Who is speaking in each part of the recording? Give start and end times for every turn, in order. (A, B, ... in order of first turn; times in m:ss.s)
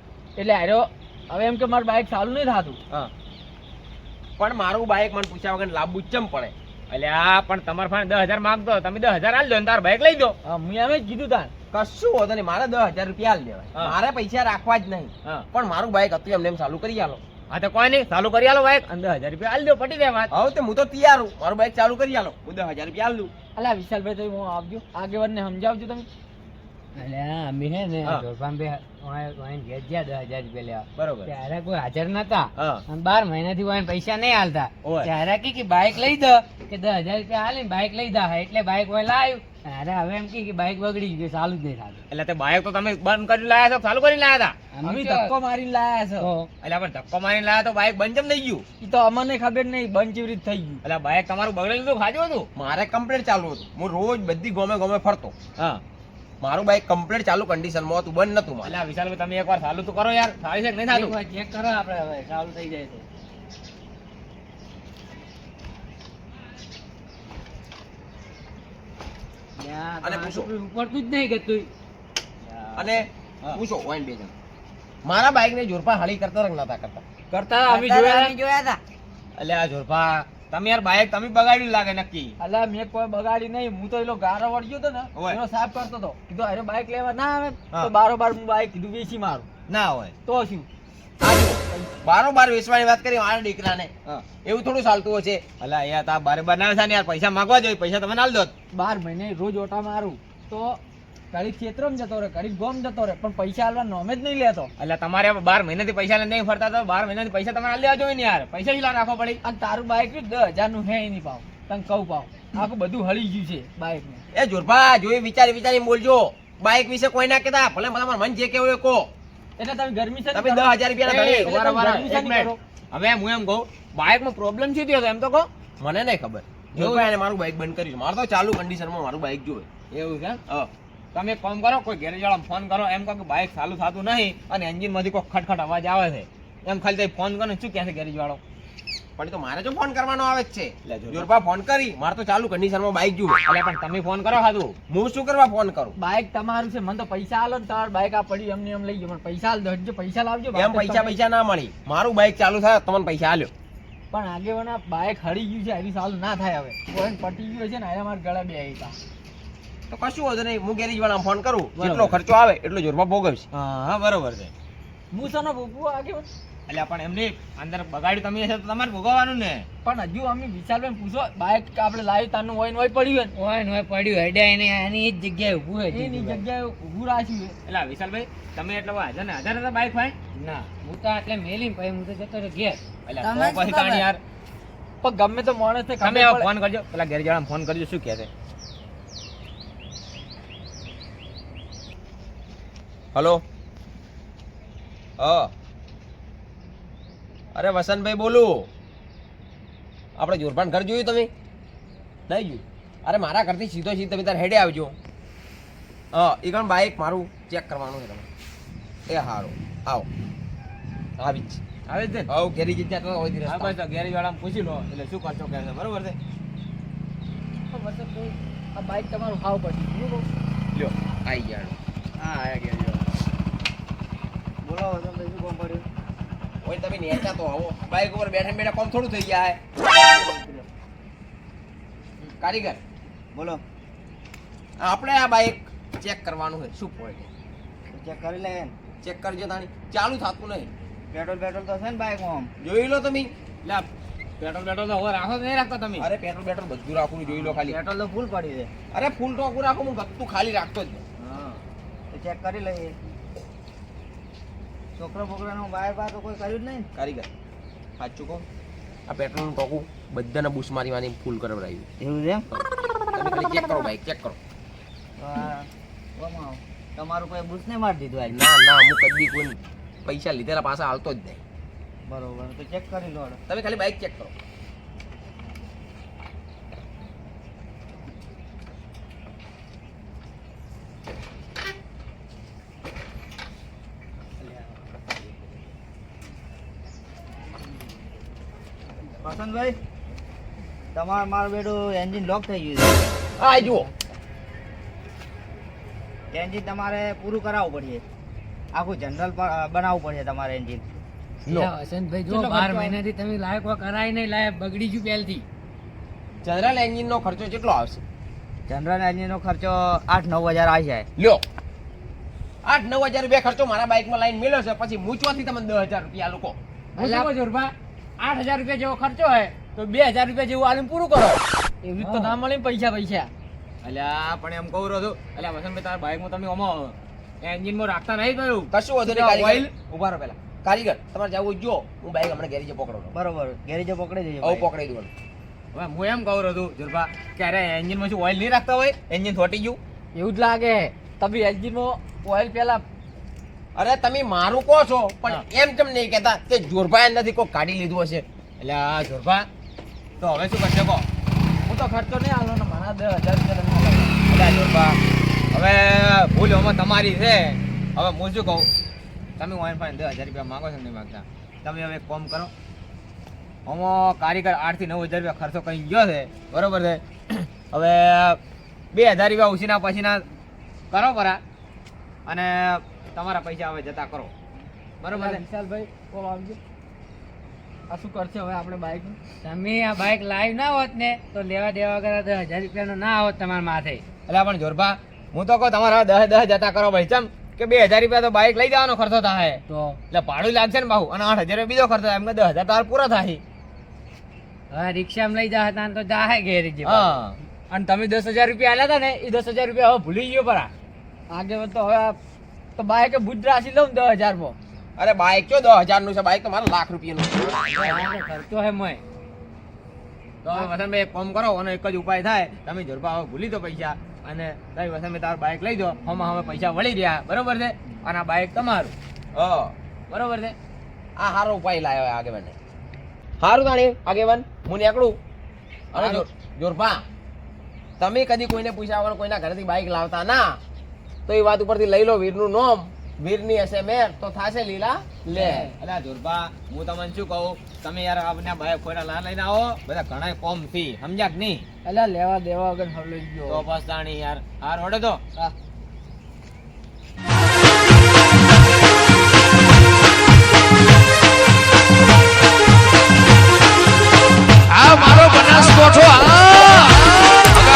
0:00.4-0:02.8 A
0:04.4-0:06.5 B
0:06.9-0:10.4 C
0:10.4-0:11.5 A
0:11.7-0:17.2 B
0:17.5-0:20.3 C
0:20.3-0:23.3 B
0:23.5-0:26.1 A
0:27.0-0:42.0 D
0:31.0-0:31.3 C
0:32.6-0:32.8 C
0:34.8-0:35.1 C
0:42.1-0:44.6 C
0:44.7-0:45.3 D
0:44.8-0:46.3 A
0:46.2-0:46.5 D
0:46.6-0:48.6 C
0:48.8-0:50.8 A
0:50.8-0:52.5 C
0:52.5-0:55.3 B
0:55.6-0:55.8 C
0:56.4-0:58.8 B
0:58.6-1:01.2 C
1:00.9-1:03.0 D
1:09.6-1:11.7 D
1:10.0-1:10.5 B
1:12.5-1:13.6 C
1:12.8-1:14.3 B
1:15.0-1:17.0 B
1:17.3-1:17.9 A
1:17.7-1:18.8 E
1:17.7-1:18.1 C
1:19.4-1:22.4 C
1:22.4-1:29.5 A
1:29.7-1:30.1 C
1:30.2-1:30.7 A
1:31.2-1:33.9 B
1:34.4-1:35.4 B
1:35.6-1:38.5 C
1:38.7-1:40.8 A
1:41.3-1:44.7 A
1:44.8-1:49.4 C
1:49.4-1:54.2 A
1:54.3-1:59.1 B
1:59.6-2:00.7 A
2:00.3-2:02.0 B
2:01.0-2:05.5 C
2:01.3-2:02.6 A
2:05.8-2:09.7 B
2:06.7-2:07.1 C
2:09.9-2:10.4 C
2:11.1-2:18.4 C
2:19.2-2:23.4 B
2:20.9-2:21.3 C
2:23.4-2:24.8 C
2:24.9-2:26.0 B
2:26.0-2:31.2 A
2:30.5-2:33.5 B
2:34.1-2:39.0 A
2:39.9-2:43.4 B
2:41.8-2:42.2 C
2:43.5-2:44.5 C
2:45.1-2:46.3 A
2:46.7-2:49.6 C
2:49.8-2:53.3 A
2:53.3-2:56.4 D
2:55.9-2:57.5 A
2:57.6-3:00.2 C
3:00.4-3:02.8 D
3:03.0-3:04.2 C
3:03.2-3:04.0 E
3:05.0-3:06.5 A
3:06.0-3:08.3 C
3:13.1-3:13.4 B
3:15.2-3:15.5 B
3:17.5-3:18.7 B
3:20.2-3:21.3 B
3:22.3-3:25.0 B
3:26.1-3:28.3 B
3:29.1-3:30.1 B
3:31.2-3:31.6 B
3:31.9-3:32.3 C
3:32.3-3:33.8 B
3:33.4-3:36.2 C
3:37.7-3:40.2 A
3:40.7-3:41.8 B
3:42.3-3:42.8 F
3:42.3-3:43.0 C
3:44.6-3:45.8 F
3:46.6-3:49.6 B
3:49.9-3:50.6 F
3:52.4-3:52.8 B
3:53.3-3:53.6 F
3:54.8-3:56.8 B
3:56.8-3:57.3 C
3:57.9-3:58.7 F
3:59.0-4:00.7 B
4:01.1-4:02.5 F
4:02.6-4:03.3 B
4:04.4-4:06.1 C
4:06.0-4:07.8 B
4:07.3-4:08.7 F
4:08.9-4:11.0 B
4:11.2-4:11.6 C
4:12.1-4:12.9 F
4:15.0-4:16.9 F
4:16.9-4:17.3 B
4:19.1-4:21.9 B
4:22.0-4:22.5 F
4:23.1-4:24.4 B
4:25.2-4:28.4 F
4:28.3-4:31.4 B
4:32.1-4:33.4 F
4:33.5-4:34.3 B
4:49.2-4:49.8 F
4:50.9-4:53.0 F
4:53.4-4:53.9 B
4:56.3-4:58.0 F
4:58.7-5:01.0 F
5:01.5-5:05.4 D
5:02.3-5:03.0 F
5:06.4-5:08.0 B
5:08.7-5:11.1 F
5:11.2-5:11.4 B
5:12.6-5:16.6 B
5:17.0-5:17.3 A
5:17.0-5:17.3 C
5:17.3-5:17.7 D
5:18.2-5:21.4 C
5:21.8-5:23.3 A
5:23.8-5:30.4 C
5:28.7-5:29.7 B
5:30.6-5:33.1 B
5:33.1-5:34.7 F
5:34.4-5:35.1 B
5:35.7-5:39.8 C
5:40.1-5:42.8 A
5:43.8-5:48.2 B
5:48.6-5:49.5 C
5:50.2-5:51.0 C
5:51.6-5:54.2 A
5:54.3-5:55.0 C
5:55.5-5:58.7 C
5:59.4-6:02.5 C
6:03.6-6:08.4 C
6:08.9-6:10.2 C
6:10.9-6:11.4 C
6:12.2-6:14.3 C
6:15.0-6:15.4 C
6:15.1-6:16.6 A
6:17.9-6:19.2 A
6:19.4-6:24.0 D
6:24.3-6:33.4 C
6:29.7-6:30.0 D
6:34.7-6:37.2 D
6:36.8-6:37.4 C
6:37.7-6:40.7 D
6:41.3-6:42.2 A
6:42.8-6:44.6 A
6:45.0-6:47.8 B
6:47.8-6:49.0 D
6:50.4-6:58.9 C
6:59.3-6:59.7 B
7:00.1-7:00.5 C
7:01.2-7:02.6 B
7:03.4-7:05.2 B
7:05.9-7:07.0 B
7:05.9-7:06.2 C
7:08.0-7:10.6 B
7:11.3-7:15.7 B
7:15.3-7:21.6 C
7:15.4-7:15.7 A
7:21.8-7:23.6 A
7:23.5-7:25.2 C
7:34.7-7:36.7 C